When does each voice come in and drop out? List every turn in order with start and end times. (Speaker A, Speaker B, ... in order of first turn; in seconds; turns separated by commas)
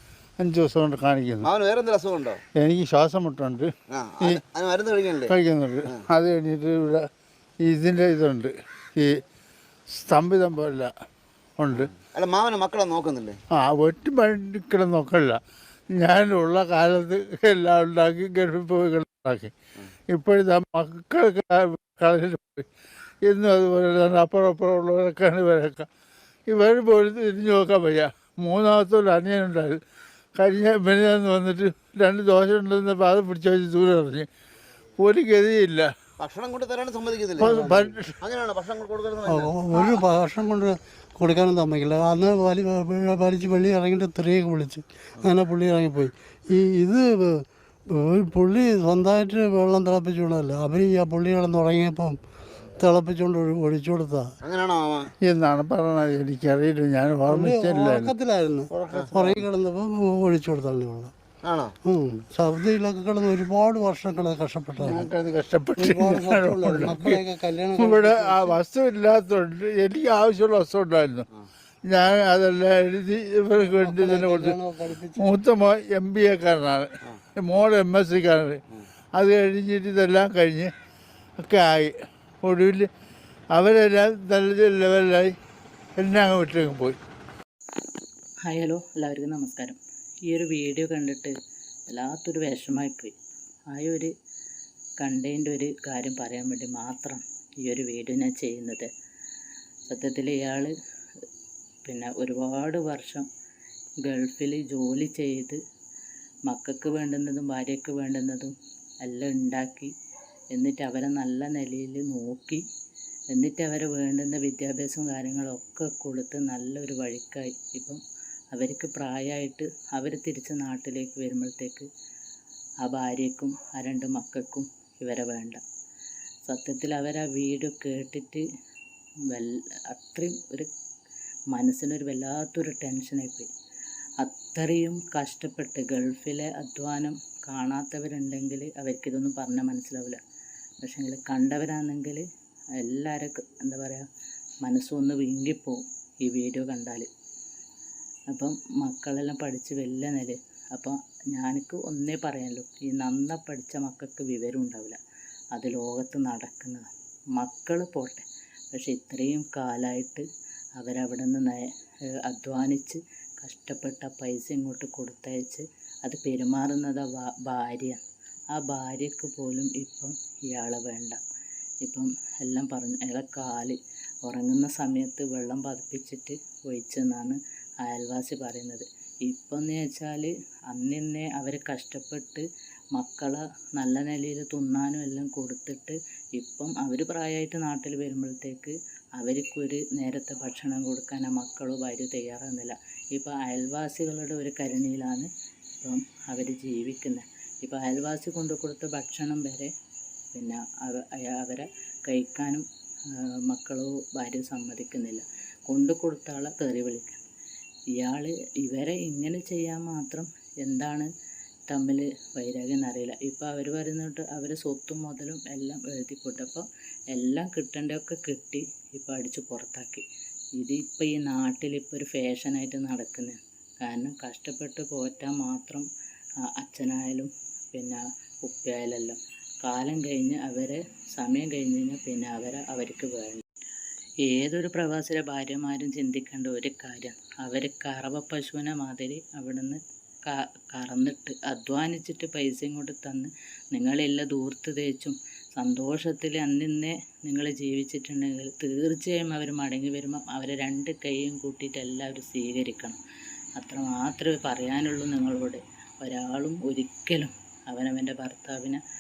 Speaker A: 0.4-1.5, Speaker B: 1.4-2.4, Speaker A: 2.6-4.4, Speaker B: 3.9-6.1, Speaker A: 5.3-7.1, Speaker A: 7.6-9.2, Speaker A: 9.9-10.9, Speaker A: 11.6-11.9, Speaker B: 11.7-13.4, Speaker A: 13.6-19.5, Speaker A: 20.1-22.7, Speaker A: 23.2-25.9, Speaker A: 26.5-29.8, Speaker A: 30.4-34.3, Speaker A: 35.0-35.9, Speaker B: 36.2-40.0, Speaker A: 37.4-38.1, Speaker C: 37.4-37.9, Speaker C: 39.2-52.2, Speaker C: 52.7-54.4, Speaker B: 54.4-55.1, Speaker A: 55.2-58.1, Speaker C: 57.3-61.1, Speaker A: 58.8-59.2, Speaker B: 61.4-61.8, Speaker C: 61.8-65.1, Speaker A: 64.8-67.2, Speaker C: 65.8-68.6, Speaker A: 67.8-71.3, Speaker A: 71.8-74.6, Speaker C: 73.6-75.3, Speaker A: 75.2-78.6, Speaker A: 79.1-80.7, Speaker A: 81.4-82.9, Speaker A: 83.5-85.4, Speaker A: 86.0-87.0, Speaker D: 88.4-91.3, Speaker D: 91.9-93.2, Speaker D: 93.7-94.1, Speaker D: 95.0-98.9, Speaker D: 99.9-100.7, Speaker D: 101.8-103.3, Speaker D: 104.0-105.6, Speaker D: 106.5-109.9, Speaker D: 110.5-112.7, Speaker D: 113.3-121.9, Speaker D: 122.8-125.6, Speaker D: 126.5-128.5, Speaker D: 129.3-130.7, Speaker D: 131.5-133.5, Speaker D: 134.2-140.2, Speaker D: 140.8-142.2, Speaker D: 142.8-144.1, Speaker D: 144.6-147.1, Speaker D: 148.3-155.0, Speaker D: 155.5-156.8, Speaker D: 157.4-160.2, Speaker D: 160.8-168.0, Speaker D: 168.5-171.2, Speaker D: 171.8-199.7, Speaker D: 200.3-207.2, Speaker D: 207.9-211.1, Speaker D: 211.7-220.1, Speaker D: 220.6-225.9, Speaker D: 226.5-233.4, Speaker D: 234.2-253.0, Speaker D: 253.6-258.8